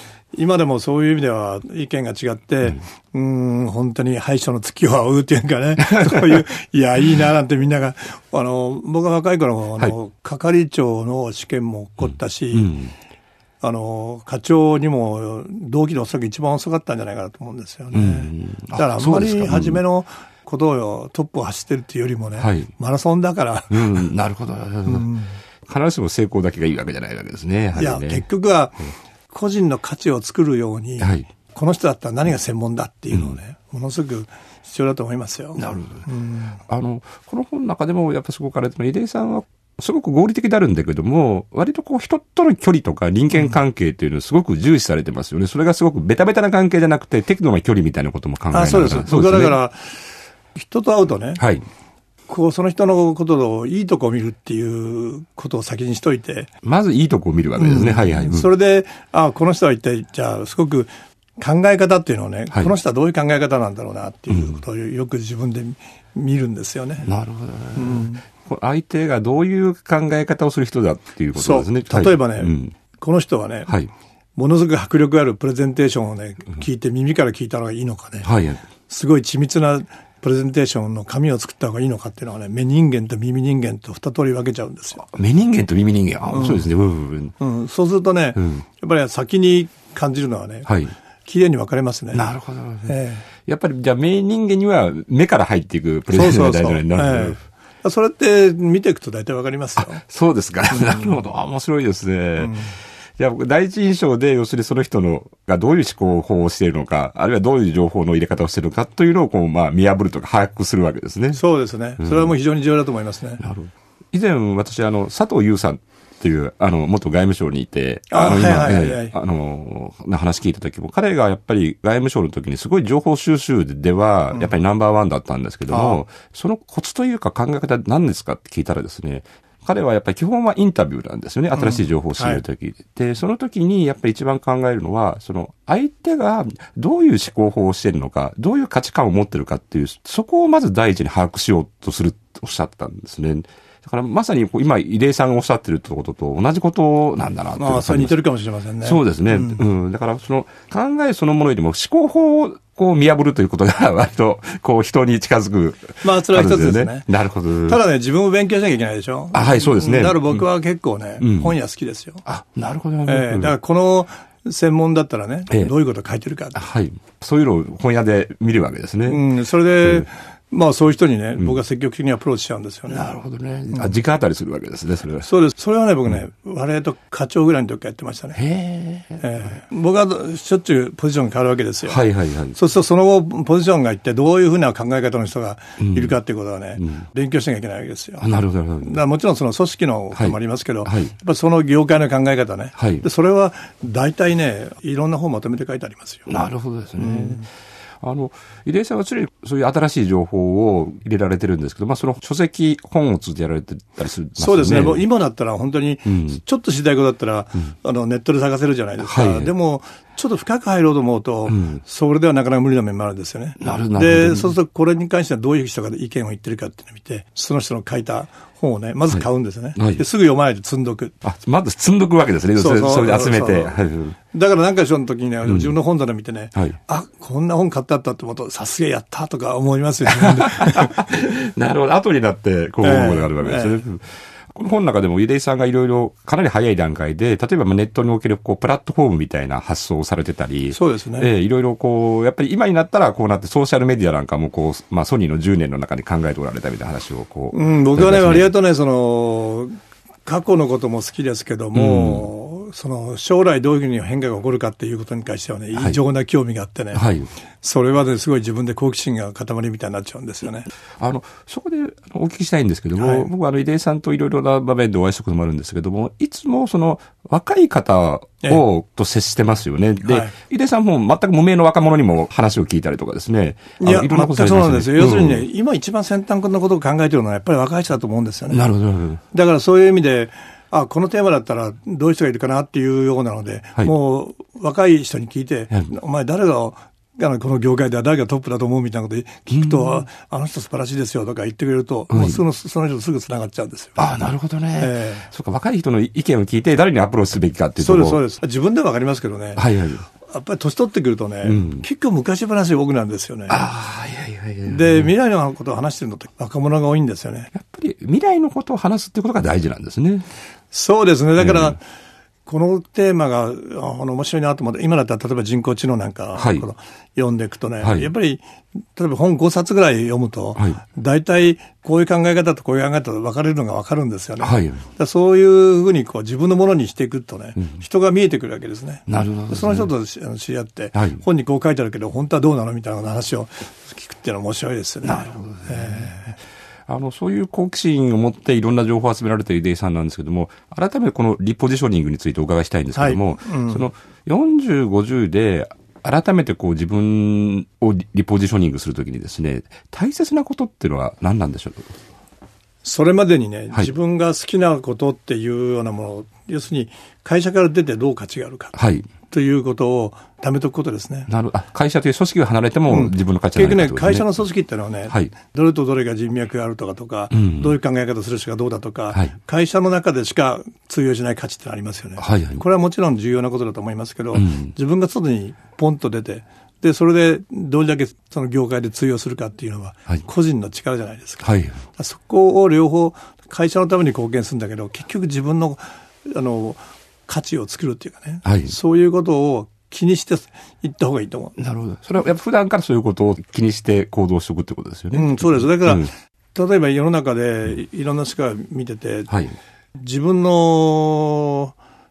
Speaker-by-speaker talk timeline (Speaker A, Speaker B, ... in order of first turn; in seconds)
Speaker A: 0.3-12.8, 13.6-24.1, 24.9-25.4, 27.8-28.8, 29.3-36.6, 48.5-50.0, 50.5-51.4, 52.3-56.5, 57.6-67.1, 67.8-68.2, 71.3-73.7, 74.4-78.3, 78.9-85.0, 86.3-86.7, 87.4-90.7, 91.3-92.3, 92.9-93.2, 96.1-100.0, 100.7-101.2, 102.4-102.7, 111.3-113.4, 118.1-119.1, 125.7-126.0, 131.6-132.4, 147.6-149.6, 156.0-157.1, 157.7-162.2, 163.1-166.6, 169.1-173.1, 175.2-178.4, 179.2-182.0, 182.5-188.3, 188.8-196.3, 197.0-197.4, 204.4-221.2, 222.6-223.8, 224.3-231.1, 232.8-233.8, 240.7-241.3, 247.5-257.0, 257.6-260.7, 263.0-263.3, 270.1-270.3, 273.8-278.6, 279.3-294.0, 294.8-295.3, 297.8-299.6, 300.2-303.6, 304.7-307.5, 310.7-311.8, 312.5-318.4, 318.9-336.2, 342.9-343.9, 352.8-361.3, 362.9-391.6, 395.1-399.3, 400.0-401.8
Speaker B: 5.9-6.4, 12.5-12.9, 17.9-19.8, 22.4-22.7, 23.7-25.1, 25.7-28.2, 31.0-31.3, 35.6-36.1, 36.7-49.6, 51.4-51.6, 56.6-58.5, 64.3-64.6, 67.0-72.8, 78.2-78.6, 85.0-87.3, 88.4-88.6, 90.7-90.9, 92.1-97.4, 99.8-111.4, 112.0-112.3, 113.4-148.2, 148.8-157.8, 159.3-160.4, 161.2-161.5, 162.2-163.6, 166.6-169.2, 172.9-175.3, 178.3-179.2, 181.9-182.6, 185.8-186.2, 186.8-187.1, 188.2-189.0, 190.2-191.1, 192.8-193.1, 196.3-197.5, 198.0-205.0, 206.1-206.4, 209.0-209.5, 211.5-211.8, 213.6-214.6, 219.8-220.0, 221.2-224.2, 225.5-225.7, 230.1-248.5, 251.7-252.3, 256.9-257.3, 261.0-275.4, 278.5-279.2, 289.5-290.0, 292.1-292.4, 294.0-298.2, 299.6-300.1, 301.4-301.9, 303.5-305.1, 307.5-310.3, 311.4-311.7, 316.4-316.6, 317.8-318.1, 324.4-324.8, 329.1-329.9, 330.9-331.2, 335.0-336.2, 336.9-351.9, 358.8-359.1, 361.3-364.3, 367.3-367.7, 372.2-372.6, 374.4-374.7, 381.4-381.8, 388.4-388.7, 391.6-396.1, 399.3-399.6